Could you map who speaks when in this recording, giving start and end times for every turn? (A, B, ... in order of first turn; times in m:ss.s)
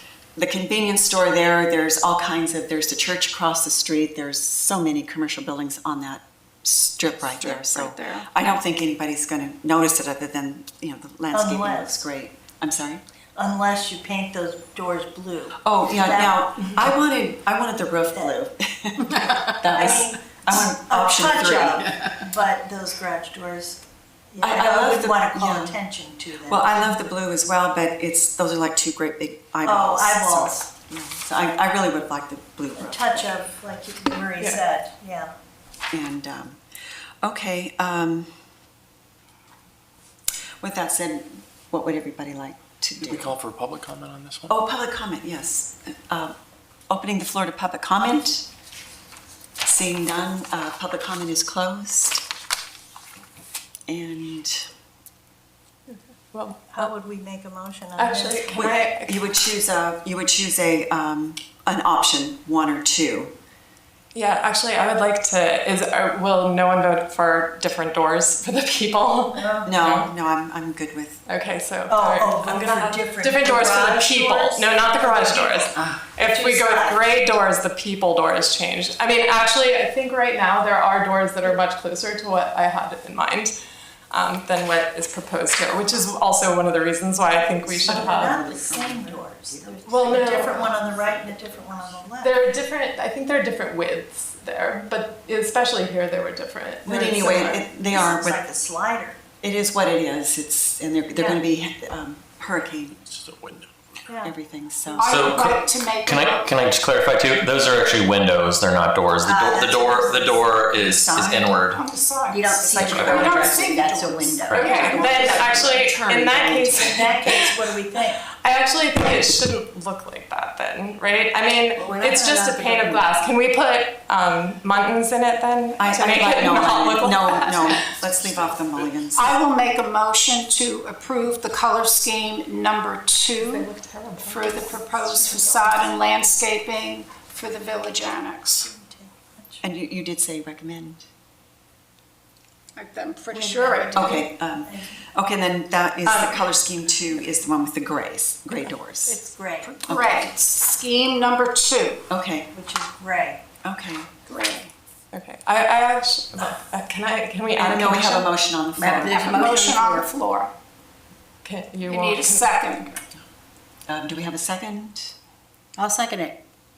0:00.4-0:13.0 A
0:07.3-0:08.3 B
0:11.3-0:12.0 C
0:13.3-0:16.8 C
0:15.6-0:22.0 A
0:19.6-0:26.8 C
0:24.4-0:25.8 A
0:26.4-0:33.3 A
0:29.6-0:30.6 C
0:32.8-0:35.3 C
0:35.9-0:36.6 A
0:37.2-0:38.3 A
0:40.6-0:43.3 A
0:43.0-0:44.5 D
0:43.5-0:44.4 E
0:44.5-0:46.3 A
0:46.9-0:48.5 A
0:49.6-0:52.2 A
0:53.9-0:54.7 A
0:56.3-0:56.9 F
0:56.7-0:58.9 C
0:58.0-0:59.2 F
0:58.5-1:03.3 A
1:04.1-1:10.1 F
1:09.4-1:09.7 C
1:09.6-1:11.2 A
1:11.3-1:23.5 F
1:11.9-1:17.0 C
1:24.1-1:28.4 F
1:27.8-1:32.3 C
1:27.9-1:28.3 A
1:29.8-1:30.7 F
1:32.2-1:37.6 F
1:36.8-1:38.4 A
1:37.9-1:39.2 C
1:39.4-1:43.0 A
1:41.1-1:41.4 C
1:42.9-1:43.7 D
1:44.0-1:44.3 C
1:44.2-1:45.4 A
1:45.0-1:46.6 B
1:45.0-1:51.8 E
1:49.2-1:50.5 C
1:50.6-1:51.5 A
1:51.6-1:55.0 B
1:52.3-1:55.6 G
1:52.8-1:53.4 A
1:52.8-1:53.4 E
1:54.4-1:54.8 E
1:54.5-1:57.4 F
1:54.6-1:56.5 A
1:55.1-1:55.7 C
1:56.5-1:58.2 C
1:58.4-2:07.8 F
2:01.8-2:03.1 C
2:05.8-2:09.4 A
2:07.3-2:07.8 B
2:08.2-2:09.0 D
2:09.1-2:13.7 B
2:13.4-2:15.8 F
2:14.2-2:18.7 B
2:18.6-2:19.6 C
2:19.6-2:21.0 A
2:22.8-2:24.2 B
2:23.3-2:25.0 C
2:23.9-2:29.2 A
2:26.0-2:26.5 F
2:29.1-2:32.0 B
2:29.3-2:29.9 C
2:29.9-2:30.3 A
2:32.1-2:32.5 A
2:32.5-2:33.4 C
2:33.6-2:34.1 A
2:34.3-2:34.7 B
2:35.1-2:38.3 F
2:37.5-2:39.8 A
2:38.8-2:40.5 B
2:39.0-2:40.1 G
2:41.4-2:42.9 F
2:41.9-2:42.9 B
2:43.9-2:45.1 A
2:45.8-2:46.4 G